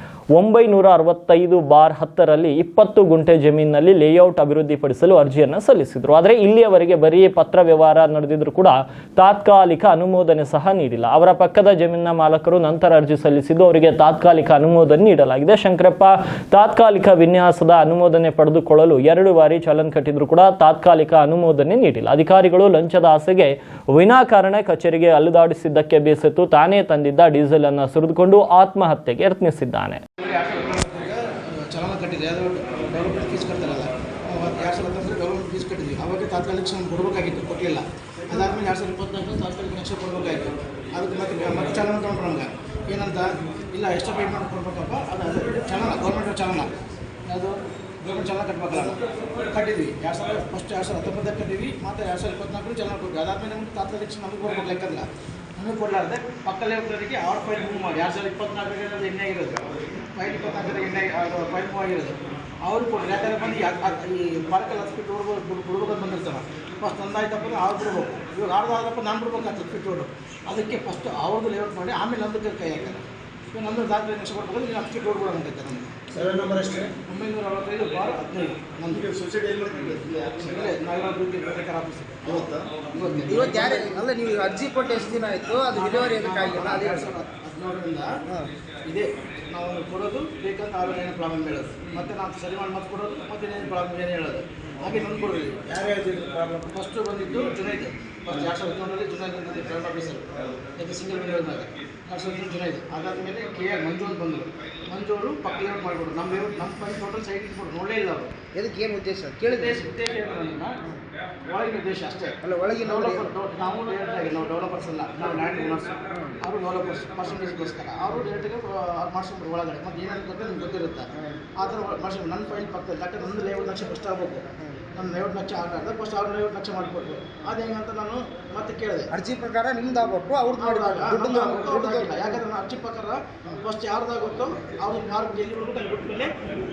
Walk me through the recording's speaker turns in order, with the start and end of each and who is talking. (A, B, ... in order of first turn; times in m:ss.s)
0:00.3-0:30.0 A
0:30.2-0:46.7 B
0:47.2-0:55.0 B
0:55.6-0:59.6 B
1:00.1-1:16.2 B
1:16.3-1:16.9 C
1:17.0-1:19.1 B
1:18.9-1:20.6 C
1:20.2-1:24.0 B
1:22.3-1:22.7 C
1:23.3-1:27.1 D
1:25.7-1:28.2 B
1:28.8-1:48.3 B
1:48.5-1:49.8 D
1:49.5-1:50.8 B
1:51.4-2:09.1 B
1:52.4-1:53.3 D
1:56.1-1:56.4 D
2:09.1-2:12.4 D
2:10.6-2:16.3 B